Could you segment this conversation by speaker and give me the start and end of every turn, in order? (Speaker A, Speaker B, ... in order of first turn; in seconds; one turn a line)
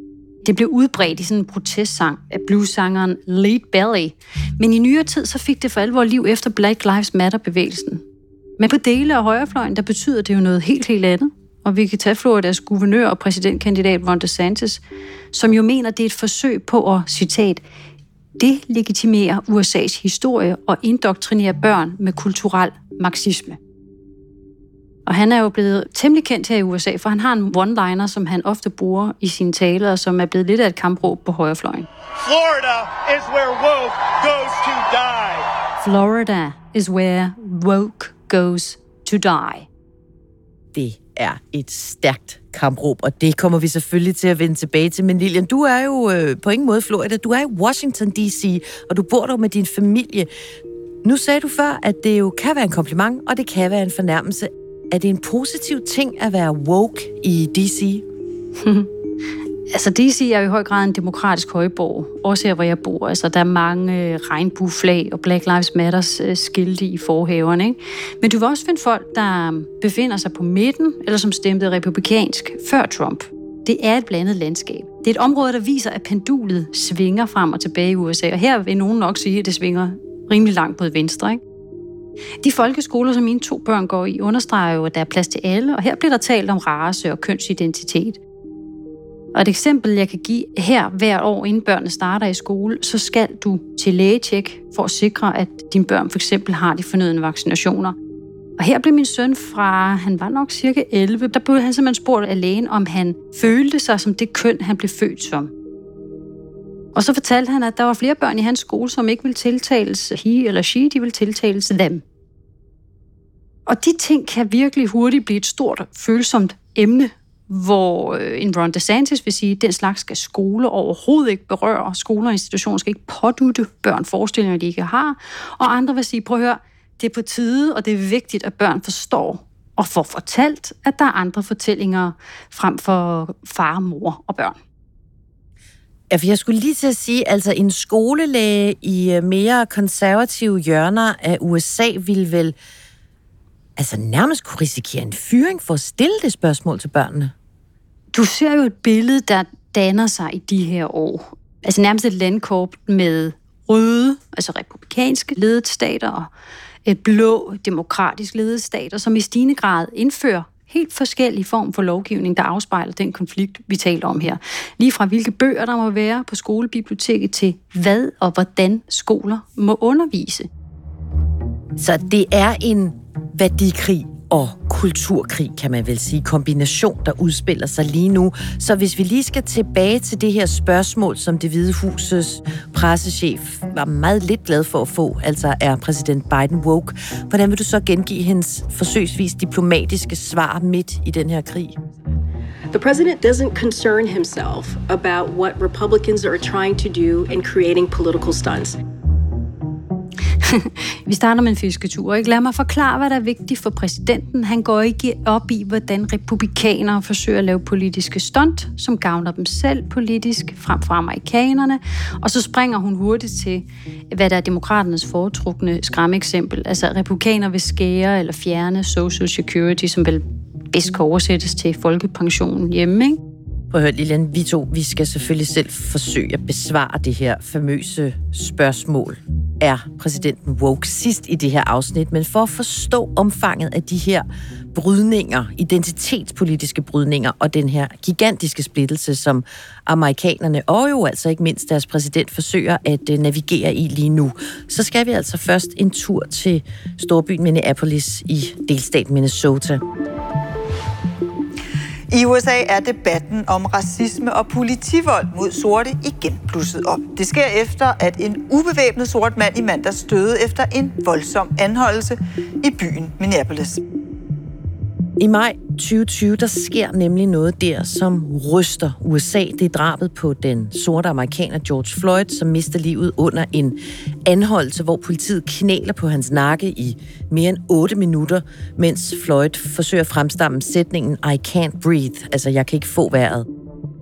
Speaker A: 0.4-8.0
Speaker A: 8.6-14.8
Speaker A: 15.3-17.6
Speaker A: 18.4-23.6
Speaker A: 25.1-31.9
Speaker B: 32.2-35.5
Speaker A: 35.8-39.7
Speaker C: 40.7-50.3
Speaker C: 51.0-58.0
Speaker A: 58.6-58.9
Speaker A: 59.7-81.4
Speaker A: 82.4-88.2
Speaker A: 89.3-98.0
Speaker A: 98.6-105.5
Speaker A: 107.0-112.0
Speaker A: 113.7-134.6
Speaker C: 136.1-142.6
Speaker C: 143.8-147.3
Speaker A: 148.1-156.3
Speaker A: 156.9-170.5
Speaker C: 171.8-191.8
Speaker D: 192.7-198.8
Speaker A: 200.4-223.2
Speaker C: 223.7-249.8
Speaker E: 252.1-263.8
Speaker C: 265.2-283.5